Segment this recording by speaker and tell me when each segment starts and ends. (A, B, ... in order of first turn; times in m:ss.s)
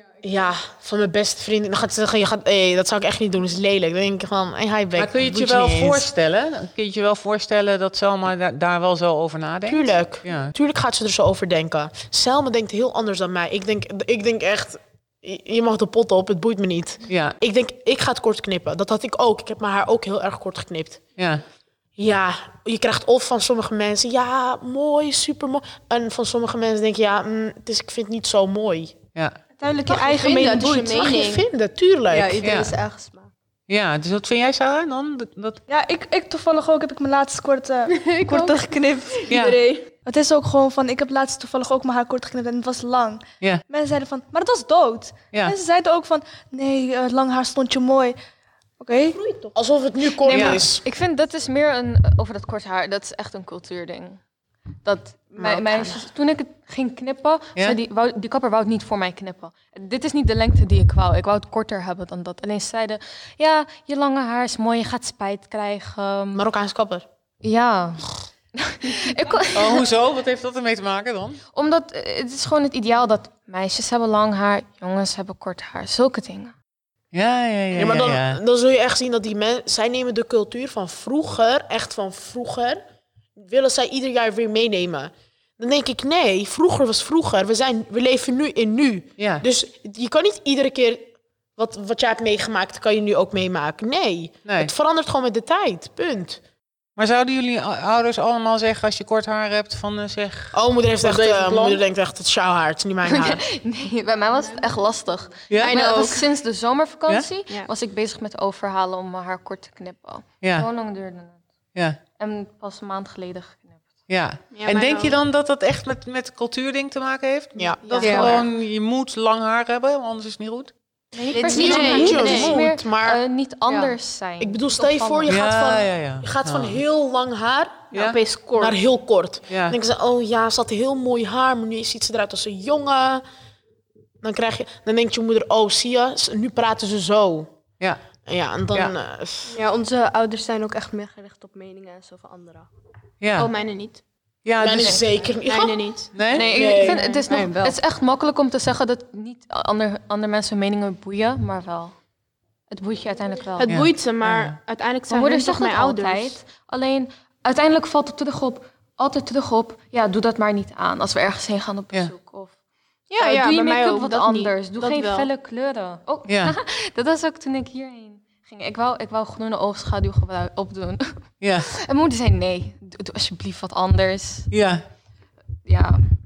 0:00.2-0:06.0 A
0:05.0-0:10.5 B
0:09.7-0:21.0 A
0:17.1-0:17.4 B
0:21.2-0:21.4 B
0:22.0-0:29.0 A
0:29.6-0:31.2 C
0:29.9-0:31.4 D
0:31.0-0:32.5 A
0:32.1-0:33.3 E
0:32.4-0:32.7 B
0:33.7-0:35.6 B
0:35.7-0:39.4 C
0:37.9-0:39.9 D
0:39.3-0:39.6 B
0:40.1-0:48.2 C
0:48.8-0:49.2 C
0:49.2-0:49.5 D
0:49.6-0:50.8 A
0:50.3-0:54.2 F
0:50.3-0:50.6 B
0:54.8-1:06.4 F
1:06.4-1:07.0 A
1:07.4-1:09.9 F
1:09.5-1:11.4 B
1:11.5-1:16.5 F
1:17.1-1:18.4 B
1:17.7-1:22.8 A
1:23.4-1:36.4 A
1:29.2-1:29.4 B
1:34.5-1:34.7 B
1:37.0-1:41.8 B
1:40.5-1:43.4 A
1:43.0-1:51.4 F
1:45.5-1:45.9 B
1:45.6-1:46.2 D
1:50.4-1:50.7 B
1:52.2-1:53.8 F
1:54.1-2:00.7 B
1:54.5-1:55.2 D
1:57.6-1:58.4 A
1:57.8-1:58.4 F
1:58.0-1:58.3 E
2:01.1-2:05.4 F
2:01.3-2:02.6 D
2:01.4-2:03.2 A
2:04.4-2:07.9 A
2:05.3-2:06.8 B
2:07.9-2:08.2 B
2:07.9-2:08.8 D
2:08.6-2:13.2 A
2:09.5-2:09.8 B
2:14.2-2:17.5 A
2:18.2-2:19.6 A
2:19.5-2:22.7 E
2:23.2-2:23.5 B
2:23.4-2:24.0 D
2:24.4-2:25.0 B
2:24.6-2:27.2 A
2:25.4-2:26.1 D
2:26.2-2:26.5 B
2:26.3-2:31.9 F
2:27.2-2:27.8 E
2:32.7-2:33.8 F
2:33.6-2:36.4 D
2:33.7-2:34.6 B
2:35.1-2:42.6 F
2:43.1-2:45.3 D
2:43.2-2:54.5 F
2:46.3-2:46.6 B
2:51.4-2:51.7 B
2:54.5-2:54.8 B
2:55.6-2:56.0 F